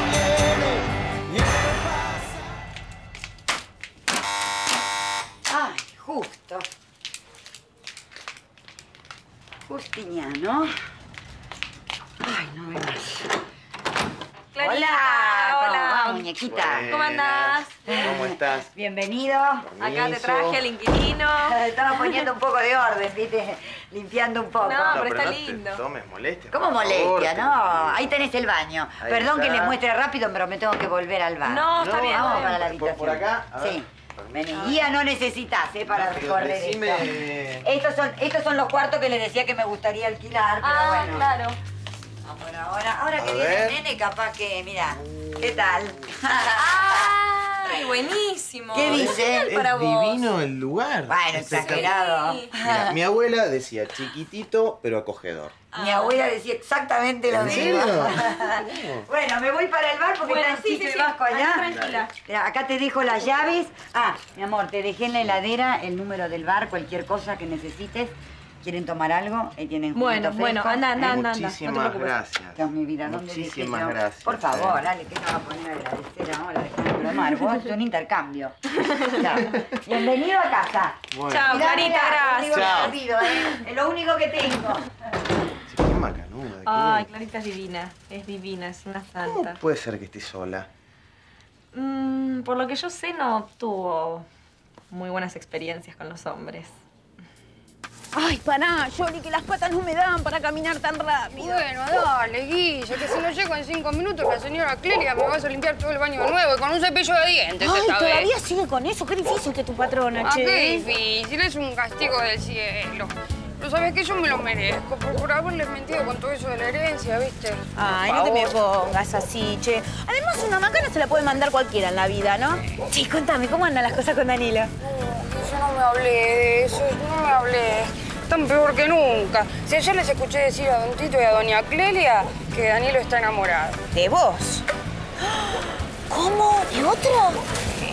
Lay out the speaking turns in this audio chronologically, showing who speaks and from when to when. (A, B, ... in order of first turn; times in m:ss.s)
0:05.5-0:06.6 A
0:09.7-0:10.7 A
0:12.2-0:13.3 A
0:14.5-0:16.3 B
0:14.6-0:16.9 A
0:16.4-0:18.7 C
0:16.9-0:18.1 B
0:17.9-0:19.7 A
0:19.6-0:20.7 C
0:19.8-0:22.2 B
0:21.4-0:25.0 A
0:24.6-0:25.8 B
0:24.9-0:28.1 C
0:26.5-0:41.3 A
0:29.0-0:29.8 C
0:31.4-0:32.6 B
0:31.8-0:34.6 C
0:34.5-0:34.8 B
0:35.9-0:37.6 C
0:40.6-0:41.6 B
0:42.2-0:47.1 A
0:43.2-0:43.8 C
0:45.1-0:45.7 C
0:46.6-0:49.1 B
0:48.7-0:49.5 A
0:48.8-0:51.9 C
0:49.3-0:50.2 D
0:51.1-0:53.0 A
0:51.5-0:52.5 B
0:52.6-0:55.7 C
0:55.7-0:56.2 B
0:55.8-1:11.1 A
0:57.3-0:59.0 C
0:57.4-0:58.4 B
1:00.2-1:02.1 B
1:09.9-1:12.2 B
1:11.0-1:14.9 C
1:12.6-1:24.9 A
1:19.0-1:19.4 B
1:21.1-1:21.5 C
1:21.3-1:23.5 B
1:22.5-1:23.0 C
1:25.7-1:27.1 C
1:26.6-1:29.6 B
1:29.2-1:30.7 C
1:31.7-1:34.2 B
1:34.9-1:36.7 B
1:38.1-1:41.6 D
1:41.3-1:48.3 E
1:47.6-1:50.8 D
1:50.2-1:58.6 E
1:57.8-2:04.7 D
2:04.8-2:13.8 E
2:13.9-2:14.6 D
2:15.3-2:17.4 D